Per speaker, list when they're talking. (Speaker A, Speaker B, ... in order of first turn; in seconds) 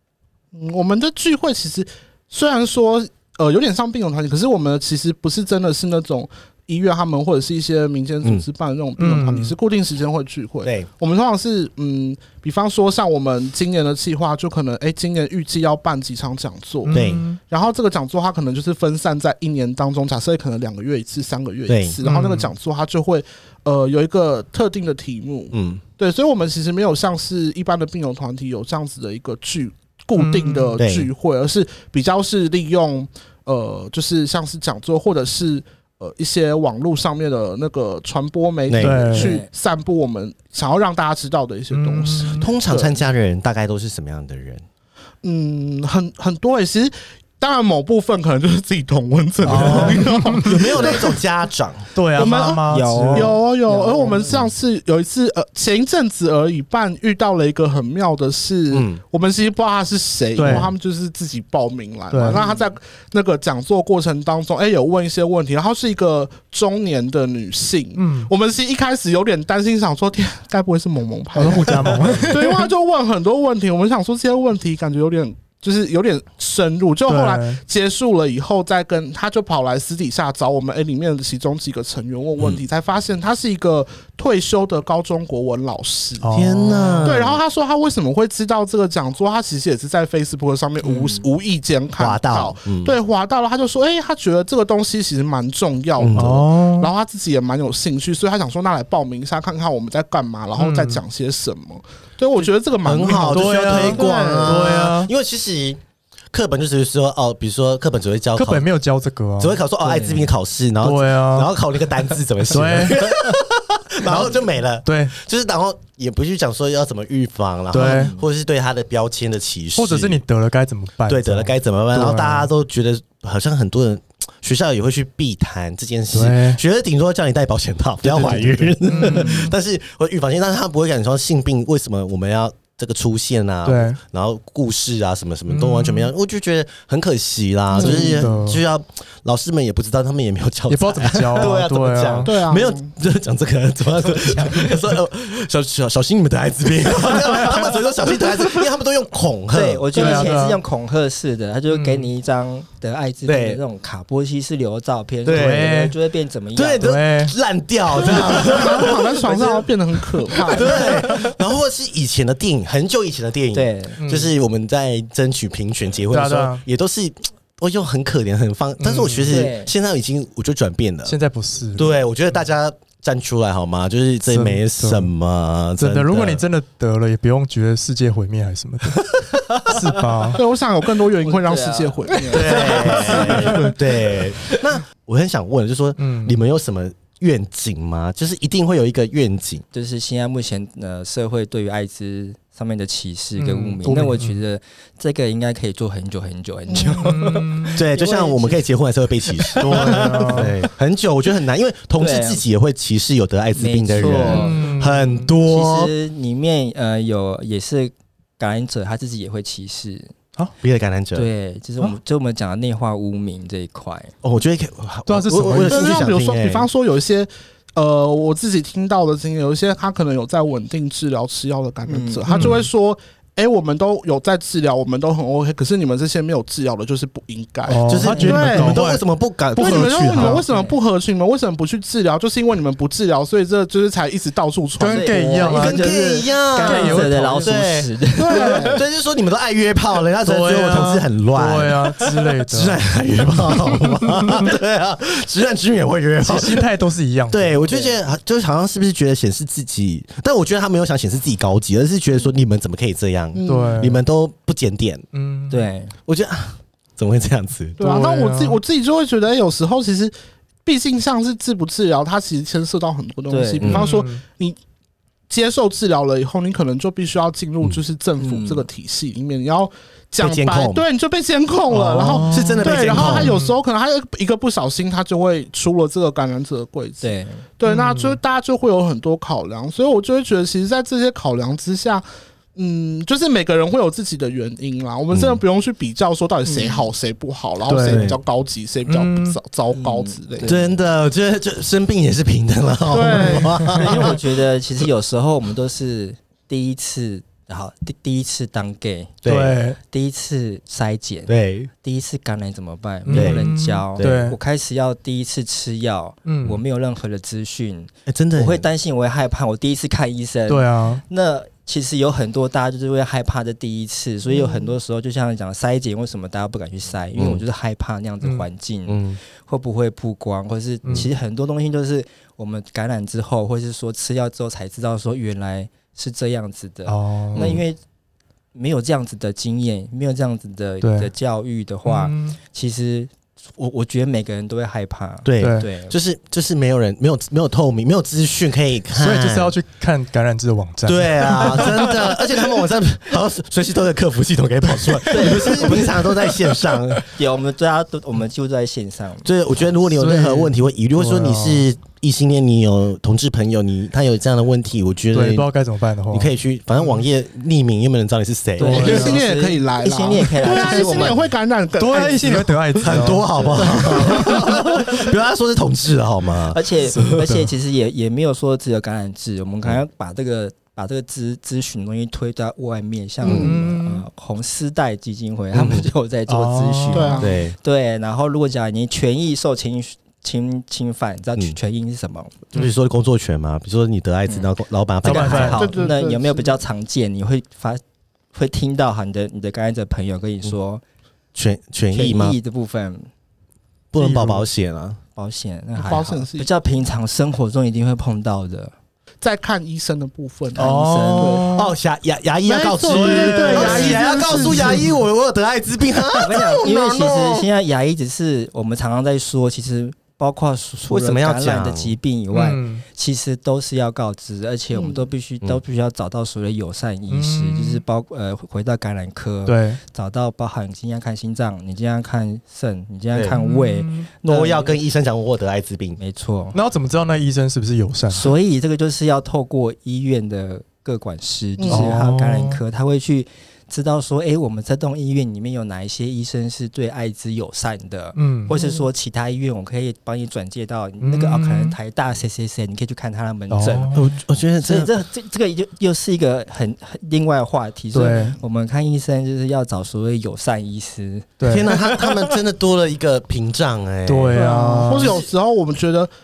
Speaker A: 0.5-43.0, 45.2-51.2, 52.1-86.3, 87.0-104.5, 137.7-138.3, 142.2-142.9, 150.0-150.3, 158.1-161.1, 180.3-183.8, 196.7-197.4, 215.5-228.9, 229.6-235.4, 238.2-238.8, 253.3-253.9, 257.8-260.1, 260.6-264.6, 265.3-290.6, 292.9-294.1, 314.2-314.7, 358.6-363.0, 363.6-364.4, 373.2-373.5, 376.9-377.3, 385.4-386.6, 395.8-396.5, 399.2-401.5, 402.4-404.9, 414.7-415.1, 431.6-432.0, 438.5-438.9, 454.3-456.1
Speaker B: 9.0-9.5, 16.8-17.4, 22.0-22.5, 30.1-30.8, 38.8-39.3, 41.7-42.5, 49.4-50.7, 51.9-53.3, 60.4-60.7, 62.1-62.4, 68.0-68.3, 71.3-72.7, 77.1-77.6, 86.2-87.1, 96.1-96.9, 100.5-101.0, 103.3-105.1, 108.3-109.6, 110.8-111.5, 112.5-113.2, 114.8-115.2, 117.7-118.1, 119.8-122.5, 126.1-126.6, 128.0-129.5, 133.6-134.0, 135.5-136.1, 137.8-138.6, 140.7-142.3, 149.9-150.6, 151.7-152.1, 155.3-155.9, 156.8-157.3, 158.1-158.8, 164.0-164.3, 166.1-166.6, 168.8-169.4, 171.1-172.0, 174.3-175.1, 175.8-179.1, 179.6-180.4, 186.0-186.4, 193.4-194.4, 196.8-197.8, 199.6-200.5, 204.1-205.3, 215.1-216.1, 222.3-222.7, 227.7-229.0, 229.6-230.4, 234.8-235.9, 236.6-237.5, 240.2-242.8, 246.2-247.5, 253.4-254.0, 255.1-255.7, 257.8-258.6, 263.6-264.2, 271.7-273.6, 277.6-278.2, 287.7-288.1, 288.9-289.4, 293.2-293.7, 299.2-299.8, 303.1-304.4, 306.2-306.6, 310.5-311.0, 326.9-327.6, 330.8-331.1, 331.8-332.4, 335.4-335.6, 338.9-341.9, 349.9-351.6, 355.1-356.3, 358.6-359.2, 361.8-364.4, 366.9-367.5, 373.2-374.1, 376.3-377.2, 385.0-385.8, 393.9-394.4, 400.6-401.7, 402.9-404.9, 412.3-412.8, 417.1-417.8, 419.4-419.8, 423.3-424.1, 426.5-428.3, 431.7-432.6, 438.1-438.5, 441.0-441.8, 443.5-444.1, 447.9-448.4, 451.4-451.7, 454.1-455.2
Speaker C: 10.6-10.9, 16.9-17.2, 21.7-21.9, 25.5-25.8, 30.8-31.1, 38.7-39.1, 42.3-44.6, 49.4-52.0, 58.7-59.0, 86.3-87.4, 92.0-93.0, 96.0-96.5, 102.8-105.8, 106.3-108.7, 109.4-120.2, 121.1-150.3, 153.2-153.6, 155.2-155.7, 156.6-159.7, 160.4-171.2, 171.7-176.4, 179.2-179.7, 182.3-189.6, 197.7-205.9, 210.6-211.3, 214.2-216.7, 227.9-230.4, 235.4-246.7, 247.3-255.0, 256.1-257.8, 263.6-263.9, 270.2-270.8, 272.2-273.4, 285.1-285.4, 287.8-288.2, 290.4-294.2, 299.2-299.6, 301.3-301.7, 303.1-303.4, 304.0-304.3, 308.1-308.6, 317.1-317.4, 318.9-319.2, 327.3-327.6, 335.2-339.5, 340.8-347.1, 349.2-355.5, 356.1-359.0, 362.8-366.6, 373.2-373.5, 375.5-375.9, 377.2-377.6, 382.5-385.7, 391.3-392.4, 393.9-395.0, 401.5-407.4, 410.9-411.9, 424.2-426.0, 443.9-444.9, 451.4-454.5
Speaker D: 39.1-39.5, 52.2-54.5, 62.3-62.7, 90.8-91.3, 109.8-110.3, 117.7-118.2, 144.2-144.5, 149.5-156.9, 163.5-164.0, 169.3-169.7, 181.2-183.7, 189.7-198.7, 199.3-200.4, 202.0-202.4, 203.6-204.7, 205.4-210.1, 211.1-214.1, 221.9-222.5, 230.2-230.8, 234.8-238.8, 247.6-247.9, 255.5-255.9, 263.3-263.8, 268.2-268.7, 277.0-277.4, 286.4-286.9, 289.7-290.8, 293.7-299.2, 299.8-327.8, 328.5-335.9, 345.1-345.8, 347.1-349.3, 358.6-361.2, 363.3-363.9, 366.5-382.5, 385.0-387.8, 388.3-390.8, 391.9-393.1, 395.1-398.7, 400.6-401.5, 406.1-424.8, 426.0-426.6, 428.1-444.0, 444.6-452.3